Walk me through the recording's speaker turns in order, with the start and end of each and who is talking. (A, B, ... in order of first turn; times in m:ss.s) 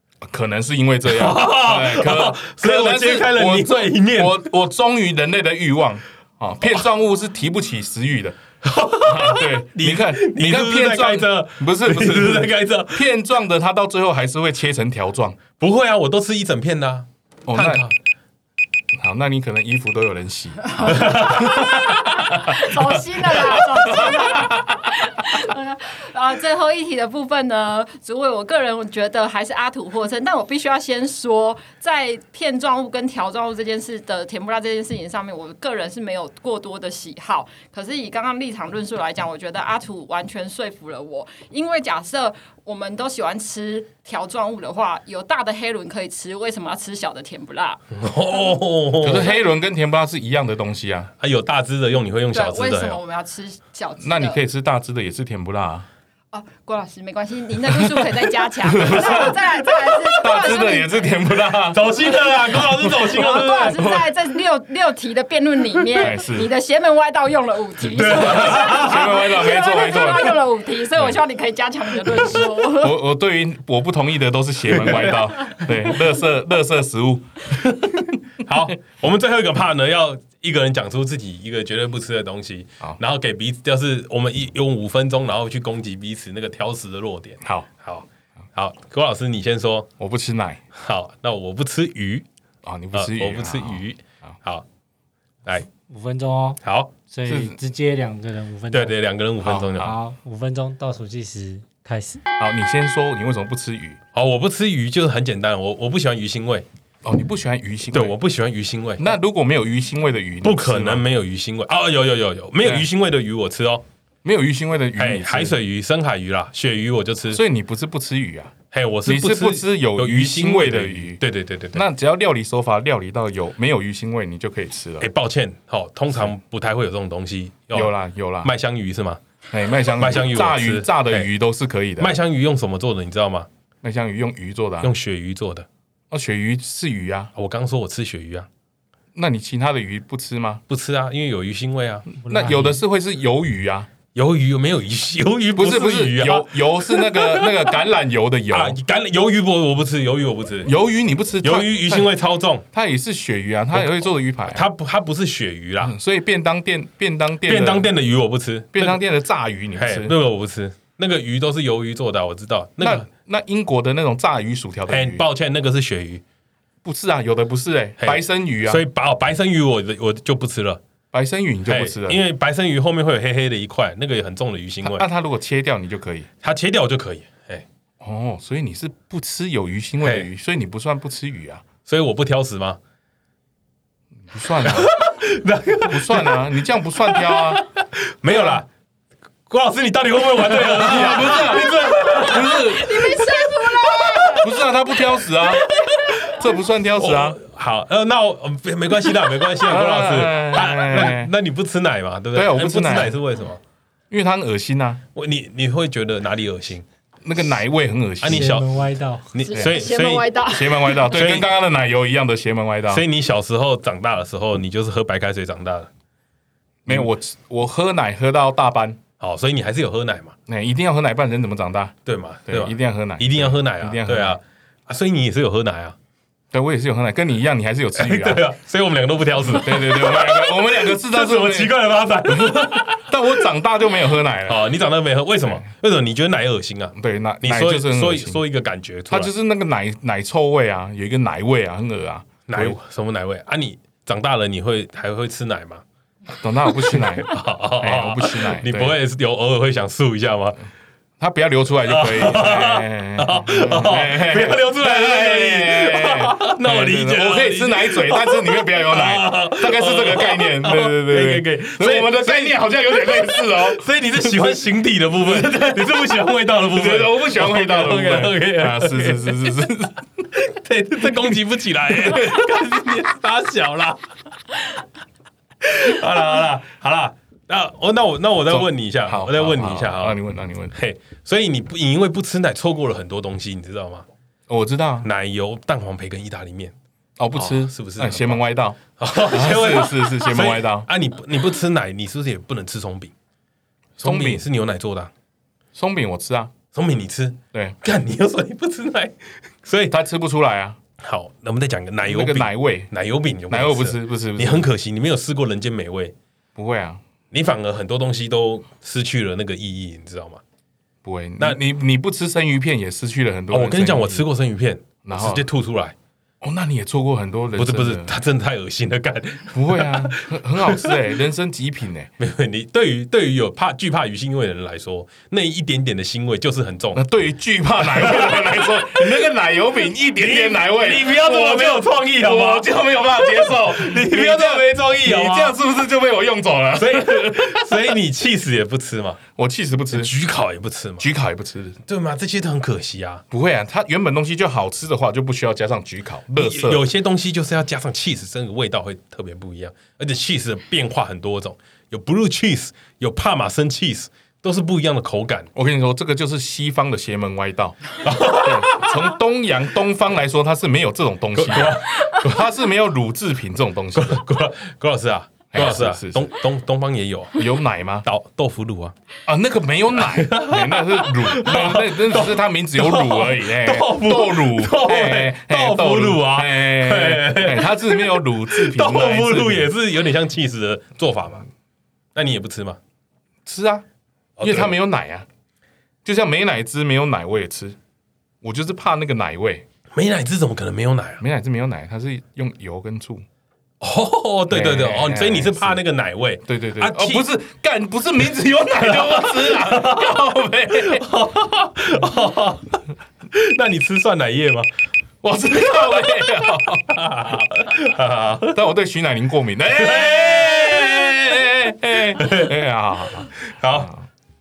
0:00.2-0:08.4 A
0:01.1-0:04.4 B
0:08.6-0:13.0 B
0:09.0-0:15.4 A
0:15.6-0:18.0 B
0:17.4-0:17.8 A
0:18.9-0:21.7 A
0:20.8-0:47.8 C
0:20.8-0:22.1 B
0:22.3-0:24.6 A
0:47.9-0:49.3 B
0:49.0-0:51.1 A
0:51.2-0:53.0 B
0:52.3-0:54.4 C
0:54.0-0:55.9 A
0:56.3-1:01.2 C
0:57.7-0:58.0 A
0:58.6-0:59.4 A
1:00.1-1:04.0 A
1:01.7-1:03.9 B
1:02.6-1:13.0 C
1:05.9-1:06.5 A
1:07.9-1:09.2 B
1:08.0-1:10.4 A
1:12.1-1:17.8 A
1:18.4-1:29.9 B
1:27.4-1:27.7 A
1:30.0-1:30.6 A
1:30.7-1:32.2 B
1:32.6-1:34.3 A
1:32.9-1:34.6 B
1:35.8-1:39.0 D
1:36.6-1:36.9 B
1:37.3-1:37.6 A
1:38.7-1:39.9 B
1:39.4-1:40.0 A
1:39.8-1:42.2 D
1:42.4-1:44.0 A
1:44.1-1:46.7 B
1:47.0-1:48.2 A
1:47.9-1:49.1 B
1:49.0-1:51.0 A
1:50.4-1:53.8 B
1:52.6-1:52.9 A
1:54.2-1:55.6 A
1:55.0-1:57.4 B
1:57.3-2:01.2 A
1:58.7-2:01.8 B
2:01.7-2:05.1 A
2:05.0-2:09.2 B
2:07.7-2:08.5 A
2:09.5-2:12.2 A
2:09.9-2:11.3 B
2:12.0-2:13.5 B
2:13.8-2:14.9 A
2:14.8-2:15.7 B
2:16.1-2:17.3 A
2:17.3-2:18.5 B
2:19.1-2:20.6 A
2:20.7-2:22.1 B
2:22.2-2:22.8 D
2:22.2-2:23.9 A
2:24.1-2:27.8 B
2:25.5-2:28.8 A
2:28.5-2:30.7 B
2:30.6-2:32.1 A
2:31.4-2:32.6 B
2:32.7-2:34.6 A
2:34.5-2:35.9 B
2:35.8-2:37.9 A
2:37.4-2:39.0 B
2:38.7-2:40.1 A
2:39.8-2:43.1 B
2:42.8-2:45.2 A
2:44.9-2:46.2 B
2:46.8-2:48.8 A
2:48.0-2:50.8 B
2:51.1-2:52.2 A
2:51.7-2:55.0 B
2:54.8-2:56.3 A
2:56.4-2:57.6 B
2:58.0-3:01.6 A
3:01.8-3:02.8 B
3:04.3-3:04.9 A
3:04.6-3:06.4 B
3:05.8-3:07.6 A
3:07.1-3:08.7 B
3:08.3-3:08.6 A
3:09.5-3:14.5 B
3:10.4-3:13.3 A
3:11.4-3:14.7 C
3:14.2-3:17.4 A
3:15.5-3:16.4 B
3:17.0-3:23.6 B
3:19.6-3:21.3 A
3:22.3-3:23.2 A
3:24.1-3:25.0 A
3:25.1-3:26.8 B
3:27.2-3:28.6 A
3:28.2-3:28.8 B
3:28.2-3:29.4 D
3:29.3-3:30.3 B
3:29.5-3:31.1 C
3:30.4-3:33.0 A
3:31.0-3:31.5 B
3:32.9-3:35.9 B
3:36.8-3:39.0 A
3:39.2-3:40.4 B
3:40.5-3:41.9 A
3:42.0-3:46.0 B
3:42.5-3:44.4 A
3:46.5-3:48.4 A
3:47.9-3:53.0 B
3:49.4-3:51.8 A
3:52.3-3:54.7 A
3:54.4-3:59.3 B
3:57.0-3:58.4 A
3:59.1-4:02.8 A
4:02.5-4:05.8 B
4:06.4-4:09.0 A
4:06.8-4:10.6 B
4:11.2-4:24.6 A
4:11.8-4:29.7 B
4:25.2-4:26.1 A
4:26.6-4:30.0 A
4:30.4-4:34.0 B
4:32.0-4:32.4 A
4:35.6-4:40.2 B
4:38.5-4:40.7 A
4:40.7-4:44.1 B
4:44.5-4:45.1 A
4:45.0-4:46.7 B
4:47.2-4:50.9 A
4:47.4-4:48.4 B
4:49.0-4:53.1 B
4:54.0-4:54.4 A
4:54.0-4:55.1 B
4:55.7-4:56.5 A
4:56.7-5:00.0 B
4:59.9-5:00.8 A
5:01.0-5:06.1 B
5:02.0-5:02.9 A
5:03.5-5:04.7 A
5:06.5-5:07.0 A
5:07.3-5:10.4 B
5:11.0-5:14.3 A
5:13.5-5:15.9 B
5:15.0-5:15.4 A
5:16.4-5:18.1 A
5:17.6-5:20.3 B
5:19.5-5:22.1 A
5:22.2-5:27.0 B
5:26.9-5:37.8 A
5:27.8-5:29.2 B
5:30.1-5:32.7 B
5:33.4-5:35.6 B
5:36.8-5:39.2 B
5:39.4-5:40.1 A
5:39.9-5:41.0 B
5:41.0-5:41.8 A
5:41.8-5:43.2 B
5:43.3-5:46.8 A
5:46.4-5:55.5 B
5:55.5-6:04.2 A
5:58.0-5:59.1 B
6:01.4-6:02.4 B
6:03.9-6:07.5 B
6:05.5-6:06.3 A
6:07.3-6:08.0 A
6:08.0-6:09.0 B
6:09.2-6:19.7 A
6:10.0-6:21.5 B
6:22.1-6:22.8 B
6:23.4-6:23.8 A
6:24.4-6:24.8 B
6:24.4-6:25.3 A
6:26.0-6:27.8 A
6:28.4-6:29.6 A
6:29.9-6:31.2 B
6:31.2-6:33.2 A
6:33.8-6:37.3 B
6:34.5-6:35.8 A
6:36.4-6:41.1 A
6:38.8-6:40.2 B
6:40.8-6:42.8 B
6:43.3-6:44.7 B
6:45.2-6:47.0 A
6:45.6-6:48.6 B
6:48.5-6:54.0 A
6:49.8-6:51.3 B
6:52.1-6:52.6 B
6:53.5-6:53.9 B